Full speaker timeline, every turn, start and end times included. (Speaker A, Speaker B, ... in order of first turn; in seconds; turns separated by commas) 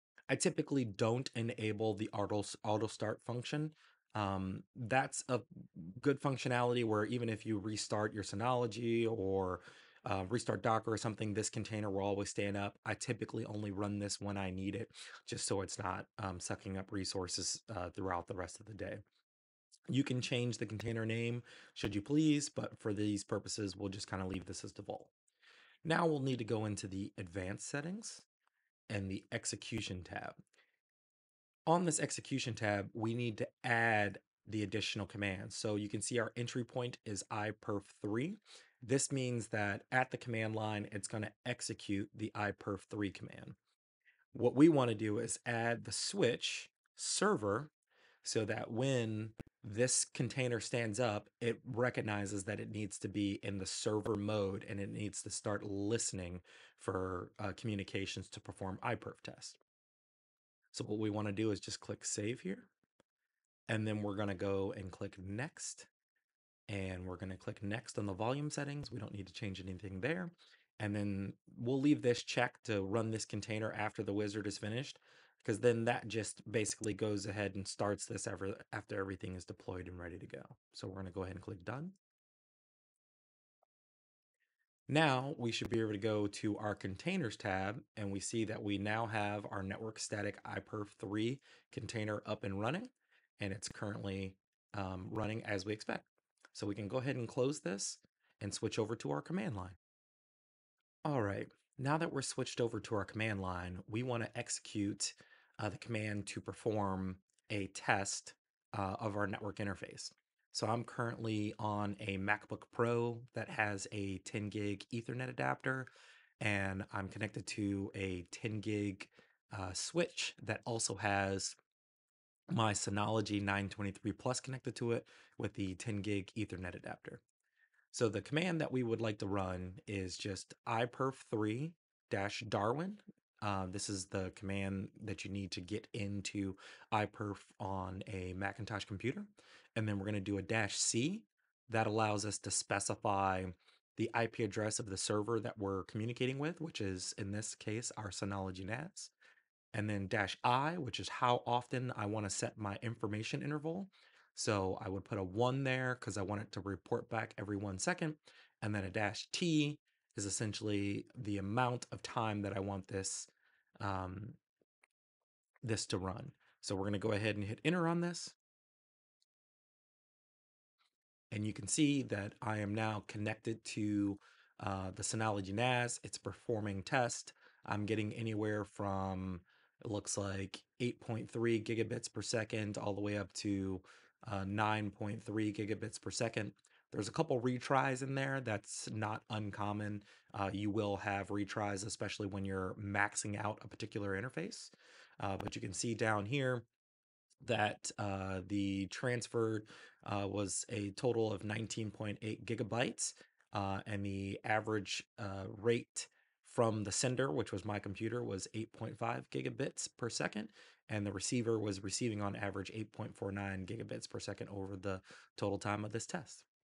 Speaker A: 0.3-19.0, Speaker A: 19.9-25.1, Speaker A: 25.8-28.3, Speaker A: 28.9-30.4, Speaker A: 31.7-43.6, Speaker A: 44.3-47.7, Speaker A: 48.2-59.6, Speaker A: 60.7-62.7, Speaker A: 63.7-65.9, Speaker A: 66.7-82.0, Speaker A: 84.9-99.8, Speaker A: 101.0-115.9, Speaker A: 116.4-121.6, Speaker A: 122.5-127.2, Speaker A: 127.9-149.1, Speaker A: 149.7-164.4, Speaker A: 165.6-168.4, Speaker A: 171.3-196.7, Speaker A: 197.4-216.5